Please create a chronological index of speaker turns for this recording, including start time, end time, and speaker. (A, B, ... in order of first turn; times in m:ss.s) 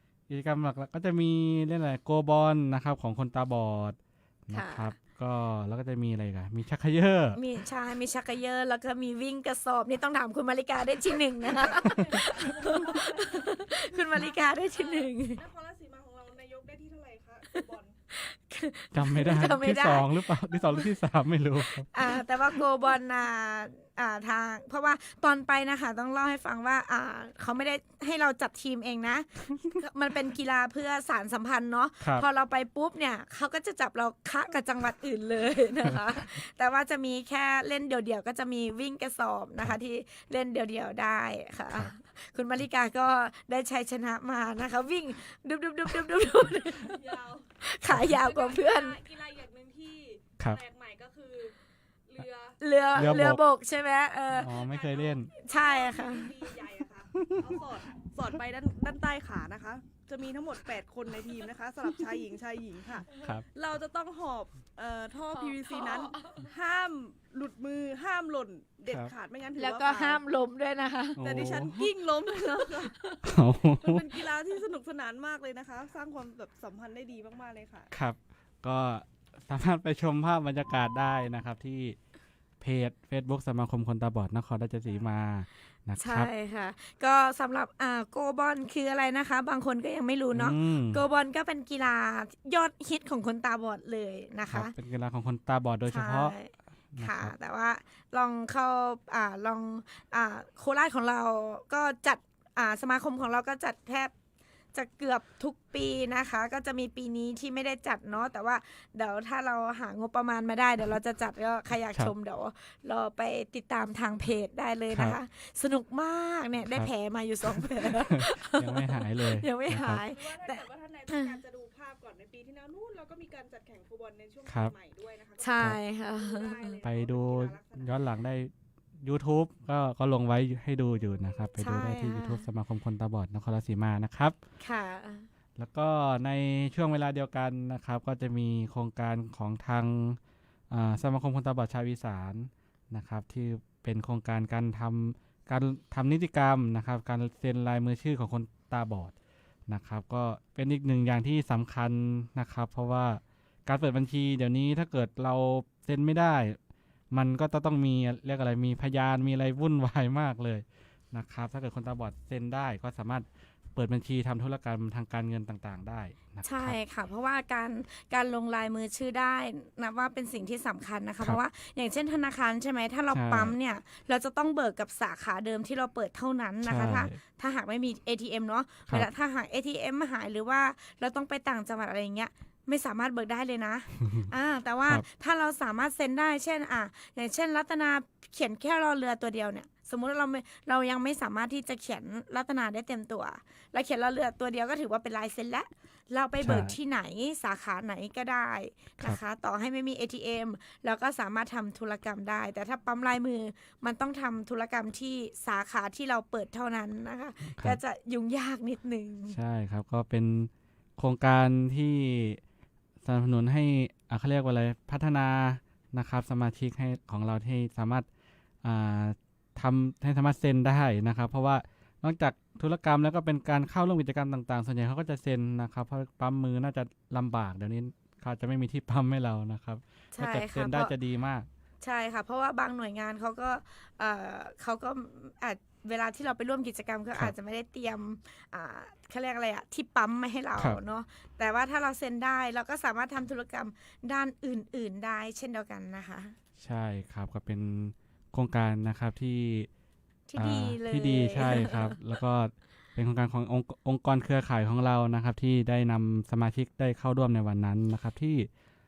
0:00.3-0:07.4 A
0:04.5-0:04.9 B
0:07.3-0:15.4 B
0:11.5-0:18.0 C
0:17.5-0:20.9 B
0:18.9-0:22.6 A
0:21.9-0:49.0 B
0:46.6-0:51.5 C
0:52.1-0:52.6 C
0:52.6-0:54.6 B
0:52.9-0:53.4 A
0:54.4-0:55.3 A
0:54.6-1:10.2 C
0:55.4-0:56.5 B
0:57.1-0:57.6 A
1:03.1-1:03.4 A
1:05.4-1:06.4 B
1:08.9-1:09.1 A
1:09.6-1:11.2 B
1:11.2-1:13.0 C
1:11.2-1:11.9 A
1:12.2-1:13.2 B
1:13.2-1:14.1 A
1:13.8-1:17.9 C
1:17.9-1:22.0 A
1:22.6-1:26.3 A
1:26.0-1:34.7 B
1:30.3-1:31.0 A
1:34.5-1:36.3 A
1:35.9-1:44.1 B
1:36.9-1:37.3 A
1:44.7-2:01.4 B
1:54.9-1:55.2 A
1:56.6-1:56.9 A
1:57.4-2:00.0 A
2:00.1-2:08.1 C
2:04.4-2:04.7 A
2:05.4-2:06.8 B
2:06.8-2:14.4 A
2:11.6-2:12.4 B
2:14.6-2:15.3 B
2:15.6-2:20.2 A
2:20.7-2:29.1 A
2:29.7-2:36.6 A
2:37.1-2:46.8 A
2:46.4-3:29.4 B
2:53.1-2:53.5 A
2:56.6-2:57.2 A
3:16.4-3:16.8 A
3:27.5-3:27.8 A
3:29.3-3:32.4 A
3:33.0-3:38.1 A
3:38.6-3:51.5 A
3:50.1-3:50.9 B
3:51.8-4:06.3 B
4:06.6-4:09.7 A
4:10.3-4:12.0 B
4:10.4-4:18.5 A